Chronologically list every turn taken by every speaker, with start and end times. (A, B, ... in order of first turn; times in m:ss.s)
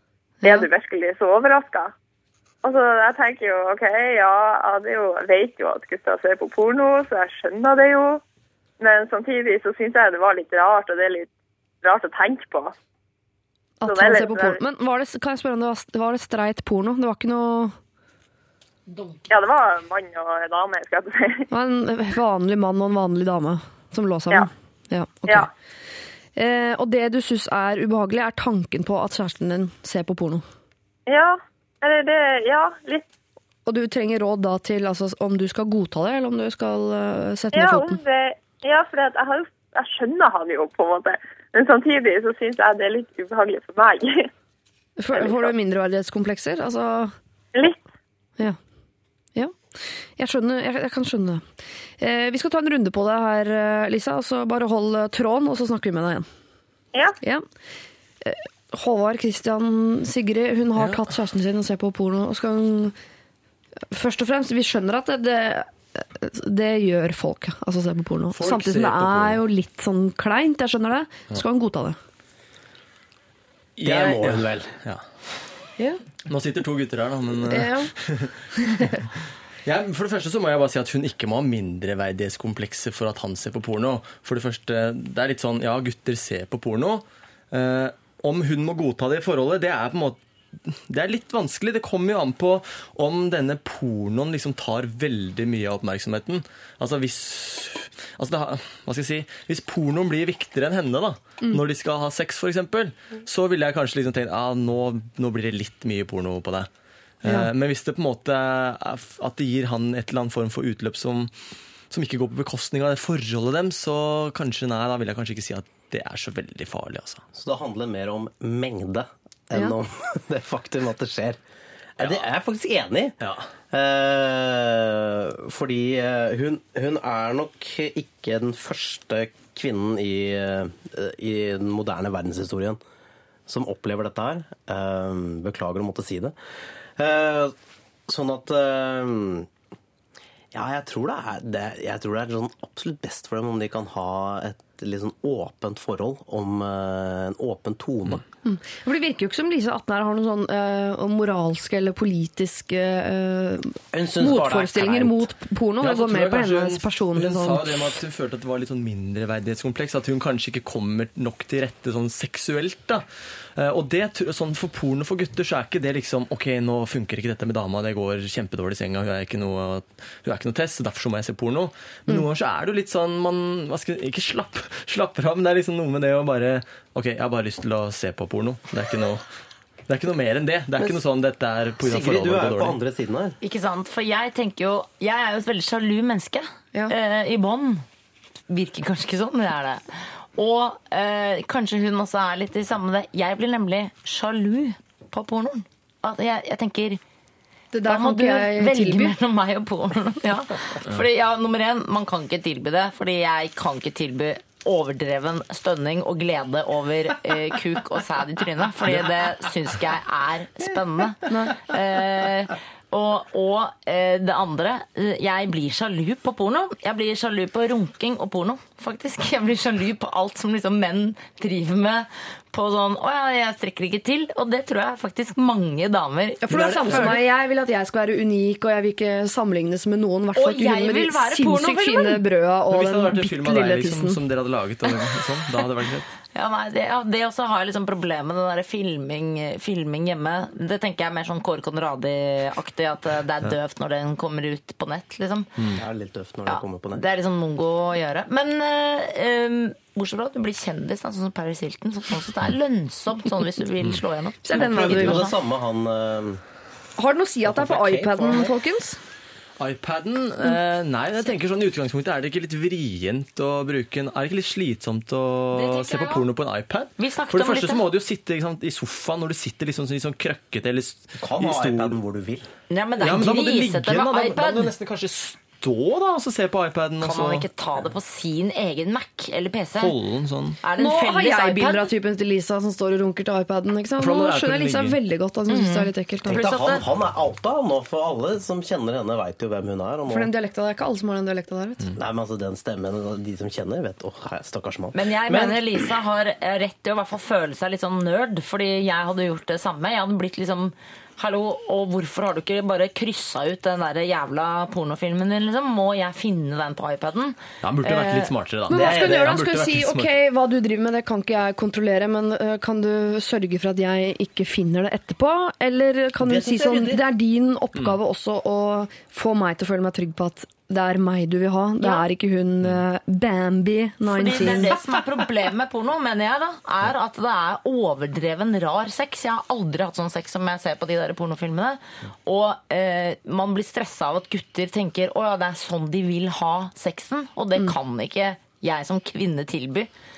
0:00.4-0:00.7 A
0:00.4-0:01.9 B
0:02.6-0:08.2 B
0:08.8-0:11.3 B
0:11.8-0:12.7 B
0:13.8-0:17.8 A
0:13.8-0:14.6 B
0:18.9-0:19.2 C
0:19.3-0:21.5 B
0:21.5-0:25.5 A
0:26.4-0:30.4 A
0:31.1-0:33.0 B
0:33.7-0:38.0 A
0:37.5-0:44.3 B
0:45.0-0:47.1 A
0:45.1-0:45.5 B
0:49.4-0:51.5 A
0:52.0-0:56.3 A
0:58.2-1:03.0 A
1:00.8-1:01.0 D
1:03.9-1:12.0 A
1:08.3-1:09.4 D
1:13.8-1:14.8 E
1:13.8-1:15.0 D
1:16.3-1:18.3 D
1:17.5-1:17.9 A
1:18.6-1:18.9 A
1:19.6-1:46.7 D
1:47.2-1:51.3 D
1:51.9-1:57.2 D
1:57.3-2:01.4 E
2:02.0-2:03.2 E
2:03.7-2:12.8 E
2:13.5-2:16.4 E
2:17.0-2:17.6 E
2:18.1-2:19.5 E
2:20.5-2:28.2 E
2:28.4-2:38.0 A
2:33.9-2:35.3 E
2:35.8-2:43.0 D
2:43.6-2:59.2 D
2:59.9-3:02.8 D
3:01.8-3:03.4 E
3:03.4-3:07.8 C
3:08.5-3:17.0 C
3:17.7-3:19.2 A
3:17.9-3:47.2 C
3:31.3-3:31.7 A
3:46.4-3:54.2 A
3:46.5-3:47.3 D
3:50.4-3:52.2 C
3:52.7-3:56.1 D
3:56.3-4:05.5 C
4:05.8-4:07.0 E
4:06.5-4:15.3 C
4:14.4-4:15.2 A
4:14.5-4:16.4 E
4:17.0-4:19.0 A
4:17.4-4:18.5 E
4:19.6-4:32.0 D
4:25.5-4:26.2 C
4:27.0-4:27.8 C
4:31.2-4:32.5 E
4:32.7-4:34.7 C
4:33.0-4:37.5 D
4:37.0-4:39.9 C
4:39.8-4:40.6 D
4:40.6-4:41.9 C
4:40.8-4:46.5 A
4:44.0-4:45.0 D
4:45.5-4:46.8 C
4:46.3-4:50.3 E
4:50.1-4:51.8 A
4:52.0-4:55.6 E
4:54.9-5:08.3 C
5:07.6-5:10.1 D
5:08.7-5:09.4 E
5:08.7-5:24.7 A
5:16.2-5:17.0 E
5:24.1-5:39.9 C